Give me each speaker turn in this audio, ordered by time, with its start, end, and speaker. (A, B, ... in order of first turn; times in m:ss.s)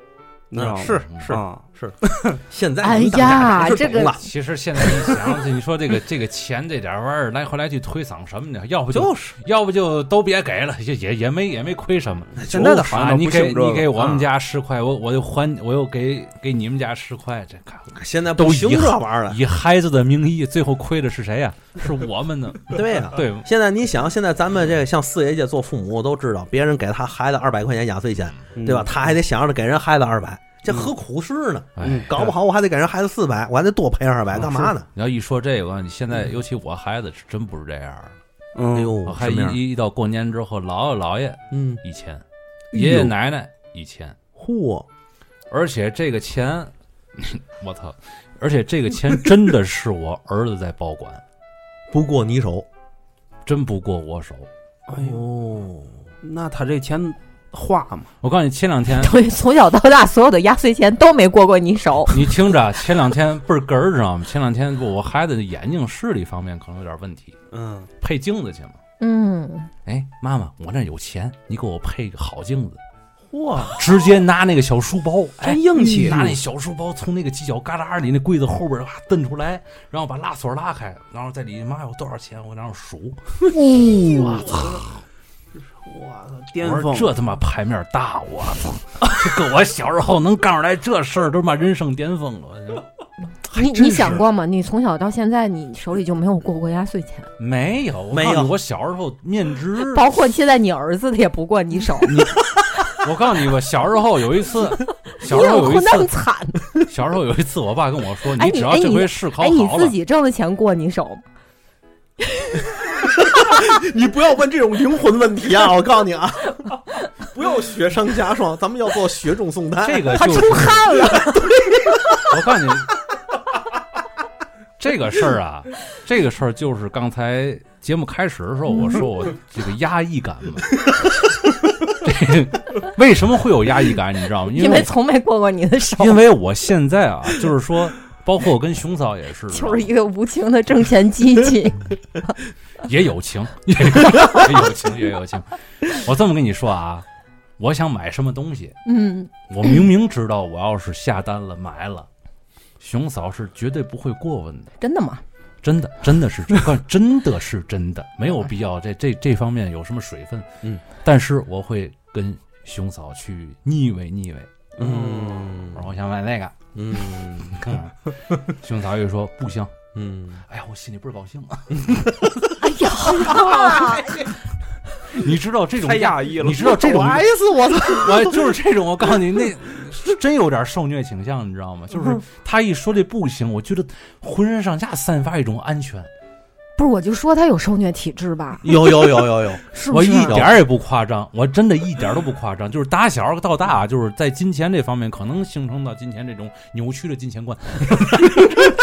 0:00.5-0:02.4 A
0:00.5-0:04.3 B
0:00.8-0:01.4 C
0:02.8-0:04.1 D
0:04.2-0:23.4 C
0:08.9-0:09.4 B
0:12.4-0:12.8 B
0:12.4-0:14.1 A
0:14.0-0:14.2 B
0:17.9-0:19.4 B
0:22.7-0:34.9 B
0:28.6-0:28.9 A
0:31.8-0:32.3 C
0:31.8-0:32.1 A
0:34.3-0:38.1 C
0:38.5-0:39.0 A
0:38.7-0:39.6 B
0:39.0-0:44.2 C
0:41.5-0:41.8 B
0:42.7-0:43.1 B
0:44.4-0:44.9 B
0:45.5-0:51.2 C
0:51.9-0:52.6 B
0:53.4-0:54.5 C
0:54.9-0:55.2 A
0:54.9-0:55.9 B
0:56.2-0:58.1 A
0:58.2-0:59.1 C
0:59.0-1:02.3 D
1:02.1-1:07.4 C
1:07.5-1:07.9 A
1:08.0-1:08.8 C
1:09.0-1:09.7 D
1:09.8-1:12.8 C
1:13.3-1:13.8 A
1:13.7-1:23.2 C
1:15.4-1:16.3 A
1:15.8-1:16.3 B
1:23.6-1:24.3 D
1:23.7-1:24.3 B
1:24.0-1:25.0 C
1:24.4-1:24.7 A
1:25.8-1:27.1 A
1:26.6-1:32.8 C
1:33.5-1:37.3 D
1:33.6-1:34.1 B
1:37.4-1:40.0 C
1:38.1-1:38.5 B
1:39.9-1:42.2 D
1:42.0-1:46.1 C
1:45.2-1:46.6 D
1:46.8-1:49.9 C
1:48.4-1:51.2 D
1:52.3-1:52.6 D
1:53.0-2:00.3 B
1:59.8-2:01.2 C
2:00.1-2:01.5 D
2:02.2-2:02.9 C
2:04.8-2:10.8 C
2:11.9-2:14.9 C
2:14.5-2:16.2 D
2:16.0-2:19.9 C
2:19.5-2:21.9 D
2:22.8-2:27.0 C
2:24.1-2:24.4 D
2:27.6-2:28.7 C
2:28.8-2:29.3 D
2:29.5-2:32.1 C
2:32.8-2:34.7 C
2:34.8-2:35.2 D
2:35.6-2:40.5 C
2:41.0-2:44.5 C
2:44.8-2:45.5 A
2:44.8-2:45.9 B
2:45.7-2:46.6 C
2:46.7-2:47.7 B
2:47.4-2:49.8 C
2:49.9-2:50.4 B
2:50.5-2:52.0 C
2:51.9-2:52.2 B
2:52.6-2:54.2 D
2:53.1-2:54.0 B
2:53.2-2:54.3 C
2:55.1-2:57.3 C
2:55.8-2:57.2 A
2:56.7-2:58.5 B
2:57.9-3:06.1 C
3:06.8-3:08.8 D
3:08.6-3:10.5 B
3:09.7-3:10.4 D
3:09.9-3:18.6 C